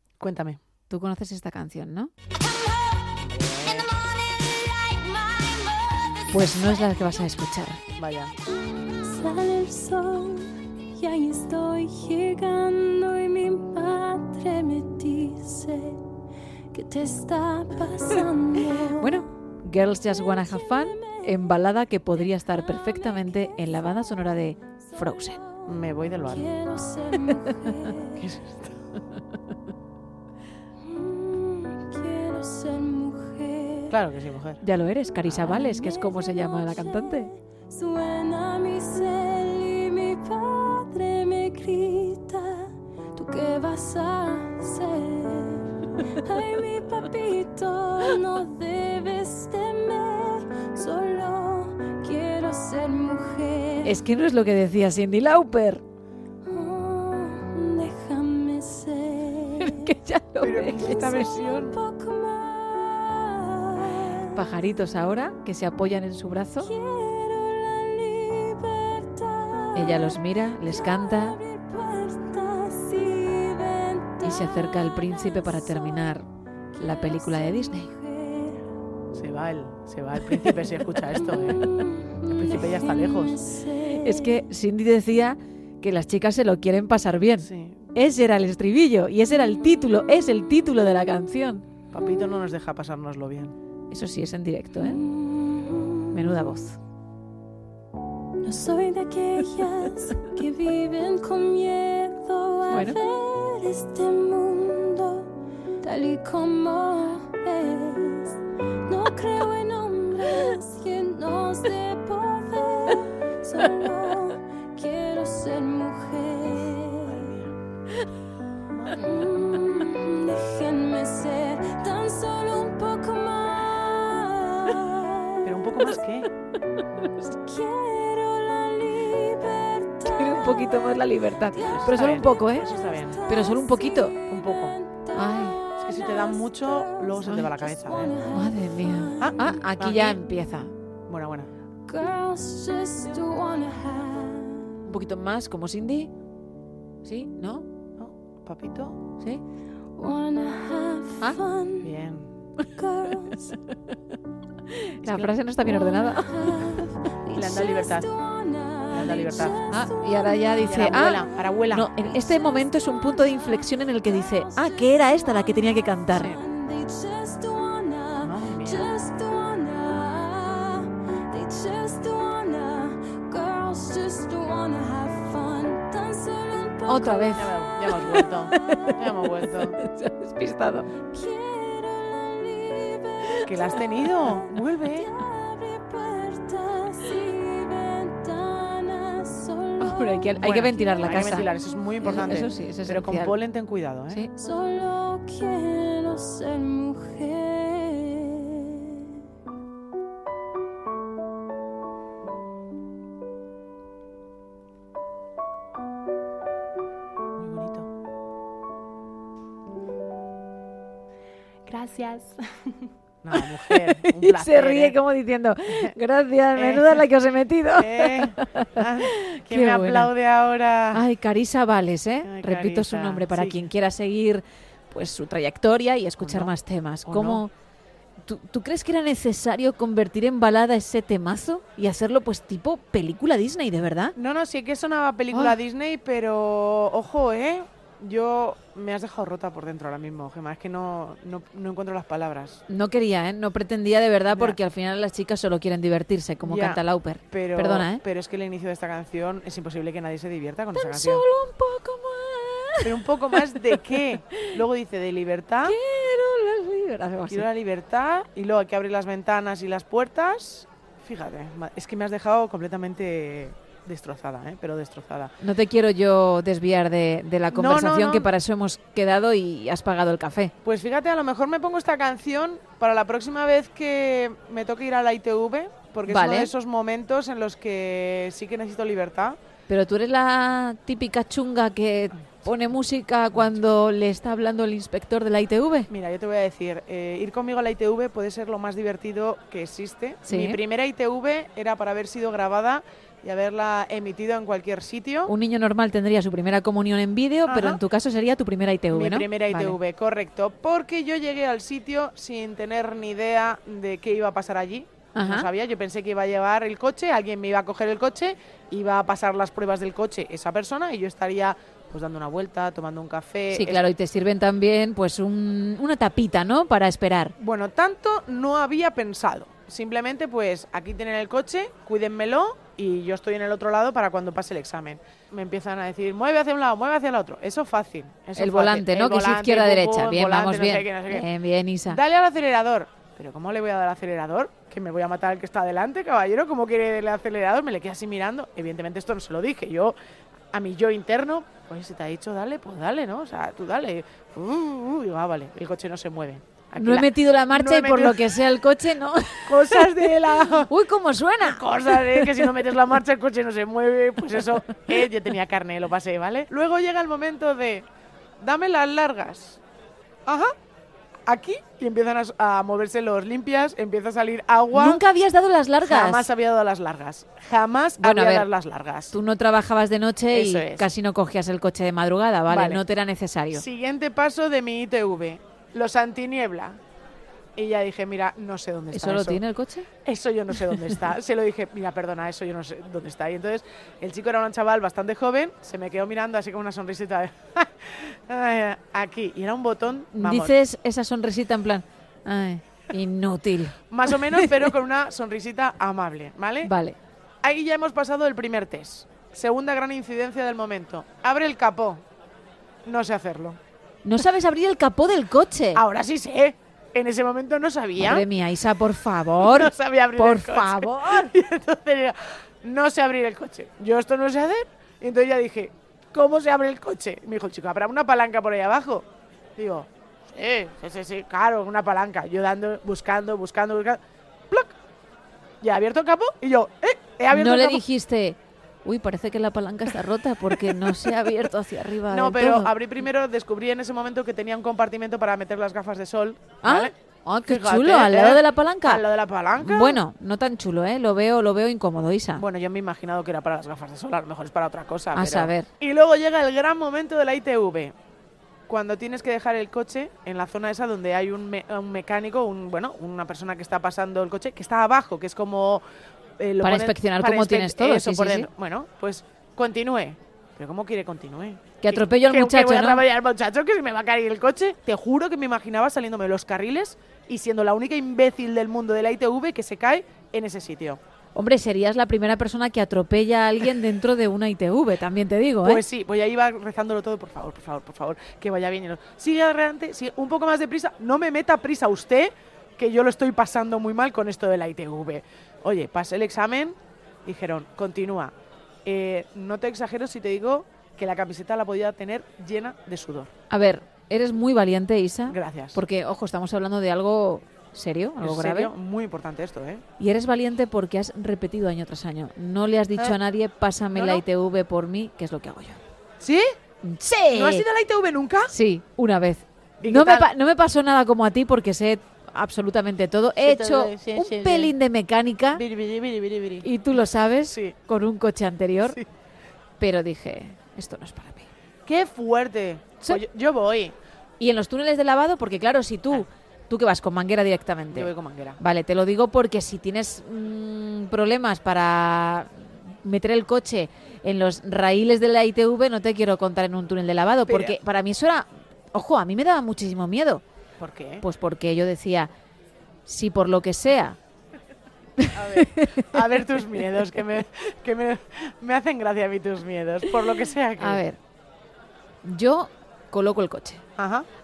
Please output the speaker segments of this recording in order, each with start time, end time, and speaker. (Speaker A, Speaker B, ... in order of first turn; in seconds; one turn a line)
Speaker A: 0.2-0.6
Speaker B: 0.9-2.1
Speaker A: 3.3-3.9
Speaker C: 4.9-5.6
Speaker B: 6.3-7.8
Speaker A: 7.9-8.3
Speaker C: 9.0-16.0
Speaker C: 16.7-19.2
Speaker B: 19.0-25.4
Speaker C: 20.1-21.5
Speaker C: 22.5-24.1
Speaker C: 25.2-25.7
Speaker A: 25.6-26.5
Speaker C: 26.2-28.3
Speaker A: 28.1-28.8
Speaker C: 30.8-34.0
Speaker A: 33.9-34.6
Speaker B: 34.6-37.3
Speaker A: 35.3-35.5
Speaker C: 35.4-54.0
Speaker B: 53.8-55.8
Speaker C: 56.5-59.9
Speaker B: 59.6-61.1
Speaker A: 60.4-61.8
Speaker C: 60.5-64.4
Speaker B: 64.3-66.7
Speaker C: 66.6-76.2
Speaker B: 69.7-71.4
Speaker B: 74.2-76.2
Speaker C: 76.7-78.6
Speaker B: 76.8-77.9
Speaker A: 79.1-81.7
Speaker C: 81.2-84.4
Speaker A: 82.3-83.4
Speaker B: 84.0-91.6
Speaker A: 87.4-87.8
Speaker A: 91.9-93.5
Speaker B: 93.9-95.0
Speaker C: 94.8-96.1
Speaker B: 96.1-96.8
Speaker C: 98.4-105.3
Speaker B: 102.7-103.0
Speaker C: 105.8-117.3
Speaker A: 117.0-117.5
Speaker A: 118.7-119.1
Speaker C: 118.9-125.5
Speaker A: 125.4-126.3
Speaker C: 127.2-139.6
Speaker B: 130.1-132.7
Speaker A: 131.6-133.2
Speaker B: 133.3-134.1
Speaker A: 134.3-134.8
Speaker B: 135.1-135.6
Speaker A: 135.8-138.2
Speaker B: 138.3-140.7
Speaker A: 139.2-140.2
Speaker A: 141.1-141.5
Speaker C: 141.9-144.7
Speaker B: 144.8-146.1
Speaker B: 147.0-147.7
Speaker A: 148.0-149.0
Speaker C: 150.0-151.9
Speaker A: 151.8-152.3
Speaker C: 152.7-153.5
Speaker B: 153.3-153.9
Speaker B: 154.7-156.9
Speaker A: 155.0-155.3
Speaker C: 155.7-178.0
Speaker A: 157.3-158.1
Speaker A: 158.9-159.6
Speaker B: 159.7-166.3
Speaker A: 160.6-161.9
Speaker A: 166.2-166.4
Speaker A: 168.2-168.9
Speaker B: 176.9-180.9
Speaker A: 177.3-179.8
Speaker C: 181.1-191.7
Speaker A: 183.4-185.1
Speaker B: 189.8-191.5
Speaker A: 190.3-194.2
Speaker B: 192.0-193.3
Speaker C: 194.4-199.1
Speaker A: 207.4-207.9
Speaker A: 211.7-212.4
Speaker A: 213.2-215.0
Speaker B: 213.6-220.1
Speaker A: 216.6-217.0
Speaker A: 217.8-221.0
Speaker B: 220.9-227.5
Speaker A: 222.2-223.6
Speaker A: 226.2-226.5
Speaker A: 227.1-227.4
Speaker B: 228.2-234.1
Speaker A: 234.2-242.6
Speaker B: 242.7-248.0
Speaker A: 244.3-244.6
Speaker A: 246.4-251.2
Speaker B: 250.7-254.6
Speaker A: 252.8-255.8
Speaker B: 255.6-257.4
Speaker A: 257.3-265.3
Speaker B: 265.4-270.5
Speaker A: 267.5-268.3
Speaker A: 270.6-279.4
Speaker B: 276.1-276.5
Speaker B: 279.7-285.9
Speaker A: 285.9-295.3
Speaker B: 290.2-290.6
Speaker B: 295.3-299.8
Speaker A: 297.4-297.8
Speaker A: 298.9-313.8
Speaker B: 305.1-305.5
Speaker B: 313.5-317.3
Speaker A: 317.4-331.3
Speaker B: 328.4-332.0
Speaker A: 331.9-339.9
Speaker A: 340.5-348.5
Speaker B: 346.8-352.5
Speaker A: 349.4-350.7
Speaker A: 351.4-357.9
Speaker A: 358.4-359.6
Speaker A: 360.2-360.5
Speaker A: 361.2-365.0
Speaker B: 364.7-366.3
Speaker A: 365.8-369.1
Speaker B: 368.0-368.5
Speaker B: 369.1-373.6
Speaker A: 370.3-370.9
Speaker A: 372.5-372.8
Speaker A: 373.5-376.8
Speaker A: 377.6-379.4
Speaker B: 378.9-379.9
Speaker A: 380.0-390.5
Speaker B: 390.1-394.7
Speaker A: 393.9-396.7
Speaker B: 396.6-397.0
Speaker A: 397.4-402.0
Speaker A: 402.8-403.6
Speaker B: 404.0-405.8
Speaker A: 405.7-408.2
Speaker B: 408.0-411.3
Speaker A: 409.4-424.8
Speaker A: 425.6-427.8
Speaker B: 427.3-432.7
Speaker A: 430.5-431.3
Speaker A: 432.1-436.9
Speaker B: 436.6-439.0
Speaker A: 437.4-440.0
Speaker B: 439.6-442.4
Speaker A: 442.4-447.9
Speaker B: 445.1-445.7
Speaker A: 448.7-455.8
Speaker A: 456.4-471.0
Speaker B: 456.6-458.5
Speaker B: 461.8-463.0
Speaker B: 471.3-475.8
Speaker A: 475.6-488.3
Speaker A: 488.8-493.3
Speaker B: 493.5-498.7
Speaker A: 495.3-495.8
Speaker A: 498.2-499.8
Speaker B: 500.0-505.8
Speaker A: 503.9-504.2
Speaker A: 506.2-506.5
Speaker B: 506.8-507.6
Speaker A: 507.3-508.5
Speaker B: 508.5-515.6
Speaker A: 509.8-510.3
Speaker A: 513.4-514.7
Speaker A: 515.5-516.7
Speaker B: 516.6-519.0
Speaker A: 517.5-517.7
Speaker B: 519.8-521.5
Speaker A: 521.9-524.0
Speaker B: 524.4-540.4
Speaker A: 527.9-528.6
Speaker A: 537.5-537.8
Speaker A: 540.8-541.2
Speaker B: 541.2-542.3
Speaker B: 543.0-544.2
Speaker B: 545.2-546.2
Speaker A: 545.3-551.0
Speaker B: 550.8-551.2
Speaker B: 552.2-553.8
Speaker A: 554.0-554.2